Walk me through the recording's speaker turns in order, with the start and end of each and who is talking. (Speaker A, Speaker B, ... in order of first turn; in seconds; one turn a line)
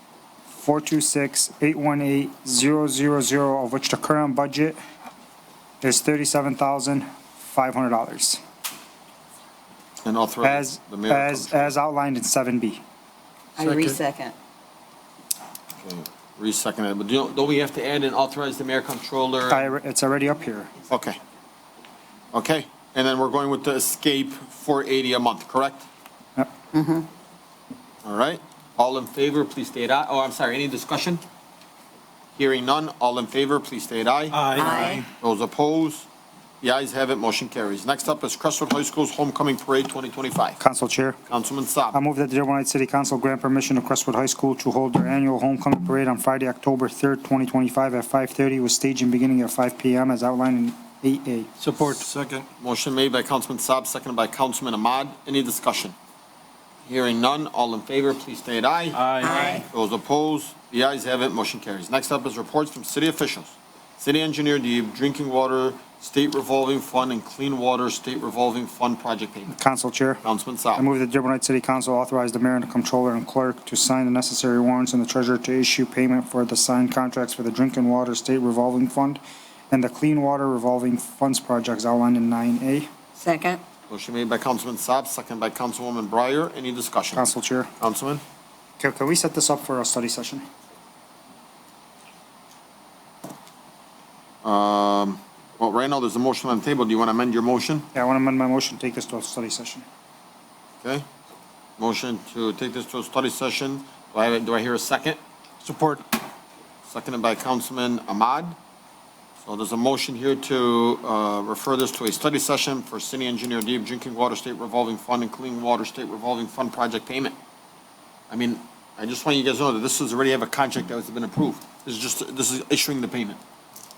Speaker A: 0.5-4.8
Speaker A: 5.8-8.4
Speaker B: 10.0-11.7
Speaker A: 10.4-12.8
Speaker C: 13.6-14.3
Speaker B: 13.6-14.0
Speaker B: 15.8-19.7
Speaker A: 19.5-20.7
Speaker B: 20.9-21.2
Speaker B: 22.3-25.9
Speaker C: 26.7-27.1
Speaker B: 28.0-31.2
Speaker B: 32.4-36.1
Speaker D: 34.3-35.1
Speaker C: 34.5-35.0
Speaker B: 36.6-40.6
Speaker A: 40.6-41.2
Speaker B: 41.3-42.0
Speaker A: 41.9-51.5
Speaker D: 51.6-52.5
Speaker B: 52.6-56.0
Speaker B: 56.9-69.5
Speaker D: 58.9-59.5
Speaker C: 59.2-59.7
Speaker A: 69.5-70.2
Speaker B: 70.2-70.8
Speaker A: 70.8-79.2
Speaker A: 79.7-82.9
Speaker C: 83.2-83.6
Speaker B: 83.9-87.2
Speaker A: 87.1-87.7
Speaker B: 87.8-88.2
Speaker A: 88.8-90.5
Speaker B: 94.4-97.9
Speaker A: 97.9-99.8
Speaker B: 101.8-105.2
Speaker D: 105.6-106.0
Speaker B: 106.9-108.6
Speaker B: 109.5-117.4
Speaker B: 118.3-123.4